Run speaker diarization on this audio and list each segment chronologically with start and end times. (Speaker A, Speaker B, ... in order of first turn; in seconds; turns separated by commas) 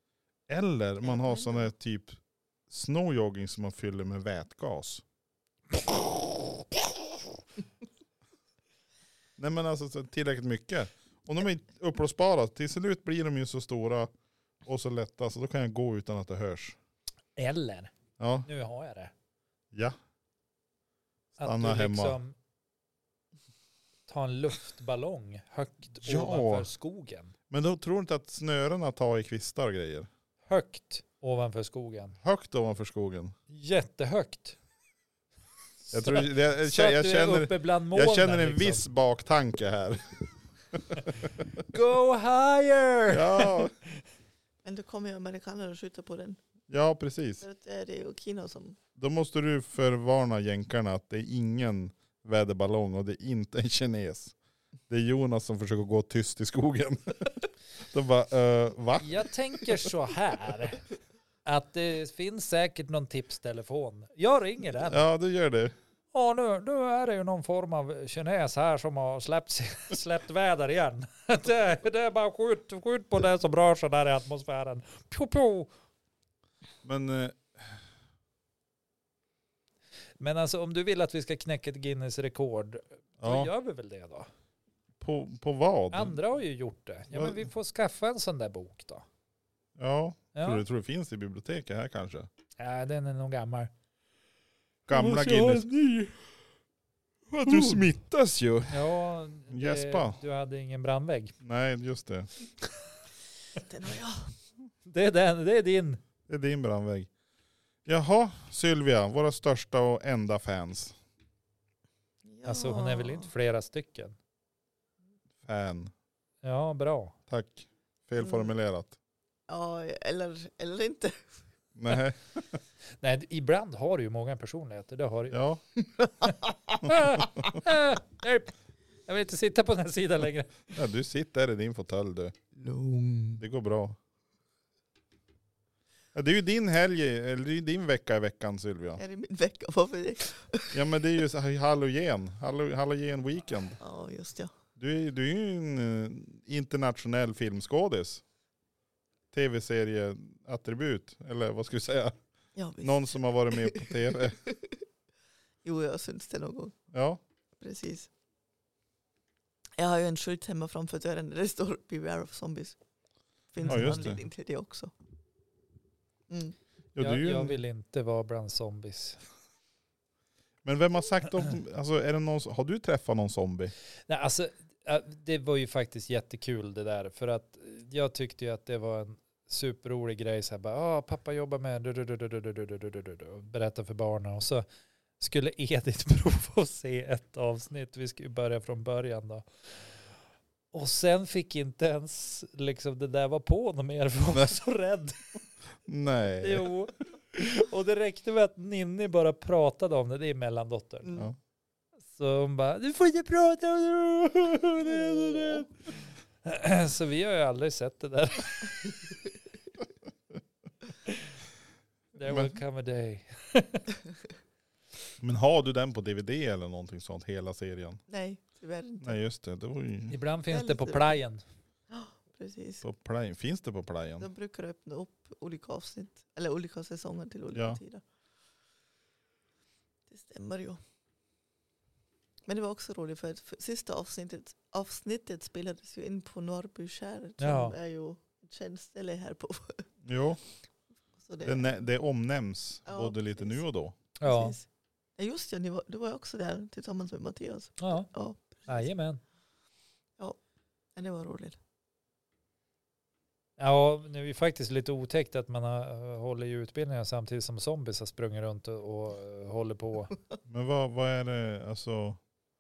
Speaker A: 0.5-5.0, Speaker B: 1.0-1.7, Speaker A: 9.4-14.1, Speaker A: 14.6-16.8, Speaker C: 17.4-17.9, Speaker A: 18.2-18.5, Speaker C: 18.4-19.1, Speaker C: 21.4-22.3, Speaker A: 21.4-22.2, Speaker C: 24.1-27.3, Speaker A: 26.0-26.7, Speaker A: 27.5-30.1, Speaker C: 30.5-32.2, Speaker A: 32.2-33.3, Speaker C: 33.5-34.6, Speaker C: 35.8-38.9, Speaker A: 35.9-41.5, Speaker C: 41.7-43.7, Speaker A: 43.1-43.7, Speaker B: 44.6-46.4, Speaker A: 46.7-47.4, Speaker B: 47.4-48.8, Speaker A: 49.0-54.3, Speaker A: 54.9-59.9, Speaker C: 59.0-60.8, Speaker C: 61.4-65.0, Speaker A: 64.8-65.7, Speaker C: 66.1-75.7, Speaker A: 76.8-77.8, Speaker C: 80.2-84.3, Speaker A: 83.2-83.5, Speaker A: 85.0-86.2, Speaker C: 85.9-89.0, Speaker A: 87.1-87.5, Speaker A: 89.8-92.3, Speaker C: 90.3-90.6, Speaker C: 92.6-93.7, Speaker A: 94.9-95.7, Speaker C: 94.9-96.1, Speaker C: 97.3-97.9, Speaker A: 97.4-98.9, Speaker C: 98.7-101.3, Speaker A: 99.5-100.2, Speaker A: 101.4-102.3, Speaker B: 103.6-104.3, Speaker C: 104.8-106.0, Speaker A: 106.3-107.1, Speaker A: 107.8-111.0, Speaker B: 112.2-113.3, Speaker C: 112.4-114.2, Speaker A: 115.4-115.9, Speaker C: 116.4-117.1, Speaker A: 117.3-119.0, Speaker B: 118.2-118.5, Speaker B: 119.5-121.4, Speaker A: 121.8-122.6, Speaker C: 123.0-125.4, Speaker A: 125.3-125.6, Speaker C: 126.8-128.5, Speaker A: 126.8-127.5, Speaker C: 129.1-130.6, Speaker A: 130.7-132.3, Speaker B: 132.6-133.4, Speaker A: 133.4-134.0, Speaker A: 136.1-139.0, Speaker B: 139.0-140.8, Speaker A: 140.7-143.8, Speaker B: 143.8-144.5, Speaker A: 144.8-148.2, Speaker A: 149.3-152.1, Speaker B: 152.6-154.8, Speaker A: 152.8-154.4, Speaker B: 155.6-156.8, Speaker A: 156.9-157.2, Speaker B: 157.6-158.1, Speaker B: 159.8-162.8, Speaker B: 163.5-164.9, Speaker C: 163.6-164.0, Speaker A: 163.7-164.2, Speaker B: 166.3-166.6, Speaker A: 166.9-167.6, Speaker C: 167.0-169.2, Speaker A: 170.6-173.7, Speaker C: 174.1-184.7, Speaker C: 185.2-189.9, Speaker C: 190.7-195.2, Speaker A: 195.8-196.7, Speaker C: 196.4-201.2, Speaker C: 202.1-205.7, Speaker B: 205.0-205.5, Speaker C: 206.4-208.9, Speaker C: 212.1-213.9, Speaker A: 212.2-212.5, Speaker A: 215.2-218.0, Speaker B: 218.1-219.2, Speaker A: 219.0-220.2, Speaker C: 220.1-221.4, Speaker B: 220.5-221.2, Speaker B: 221.9-222.8, Speaker A: 222.8-224.3, Speaker B: 224.2-228.0, Speaker A: 227.5-227.8, Speaker B: 230.1-230.8, Speaker B: 232.5-239.8, Speaker C: 237.4-237.8, Speaker A: 240.0-240.4, Speaker B: 241.2-241.8, Speaker A: 241.4-243.9, Speaker B: 242.8-243.6, Speaker C: 244.2-244.5, Speaker B: 244.2-244.7, Speaker B: 245.2-248.9, Speaker C: 247.8-248.1, Speaker C: 248.7-249.2, Speaker B: 250.9-251.6, Speaker C: 253.6-260.1, Speaker A: 260.4-262.2